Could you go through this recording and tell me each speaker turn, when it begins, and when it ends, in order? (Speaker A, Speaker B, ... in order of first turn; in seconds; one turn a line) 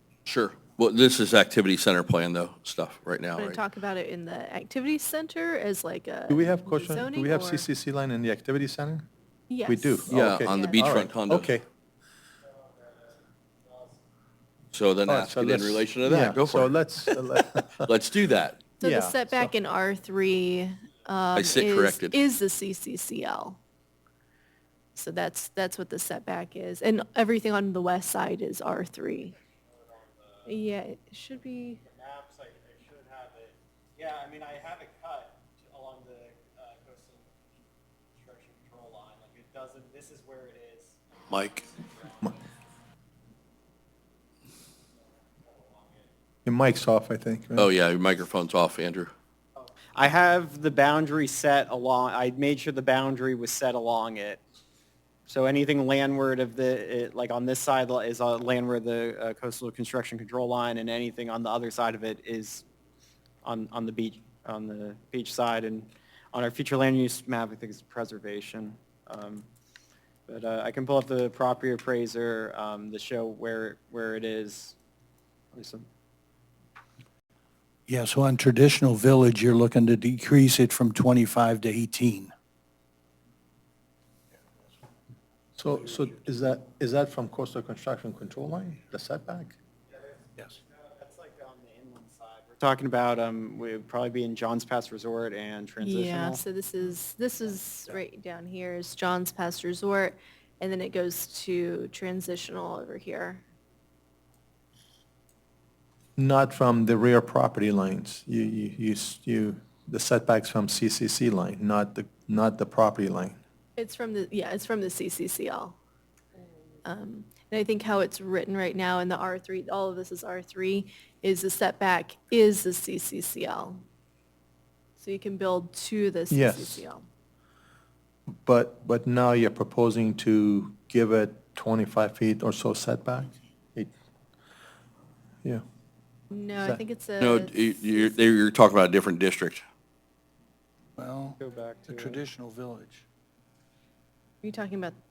Speaker A: 0.3-3.6
Speaker B: 3.4-7.7
Speaker C: 6.3-9.1
Speaker B: 9.5-10.9
Speaker C: 9.7-11.7
Speaker A: 10.1-11.6
Speaker D: 12.8-13.9
Speaker A: 14.7-18.6
Speaker C: 15.1-17.9
Speaker B: 18.8-23.6
Speaker C: 18.8-19.5
Speaker A: 21.4-22.2
Speaker B: 25.0-29.3
Speaker D: 29.7-30.6
Speaker B: 30.5-31.8
Speaker D: 31.8-37.3
Speaker D: 38.2-42.4
Speaker A: 41.3-41.5
Speaker D: 45.4-46.1
Speaker C: 46.5-47.7
Speaker A: 47.6-49.1
Speaker D: 49.6-54.4
Speaker D: 55.3-62.6
Speaker D: 63.4-69.5
Speaker D: 70.3-74.8
Speaker D: 75.5-75.9
Speaker E: 77.9-82.3
Speaker C: 85.6-89.6
Speaker D: 89.9-96.4
Speaker B: 95.8-103.4
Speaker C: 106.2-113.4
Speaker B: 113.8-115.8
Speaker B: 116.8-123.8
Speaker B: 125.0-127.0
Speaker C: 126.3-126.9
Speaker C: 128.5-133.9
Speaker B: 136.3-138.1
Speaker A: 137.2-139.6
Speaker E: 141.0-143.1
Speaker D: 141.4-142.2
Speaker B: 144.4-145.0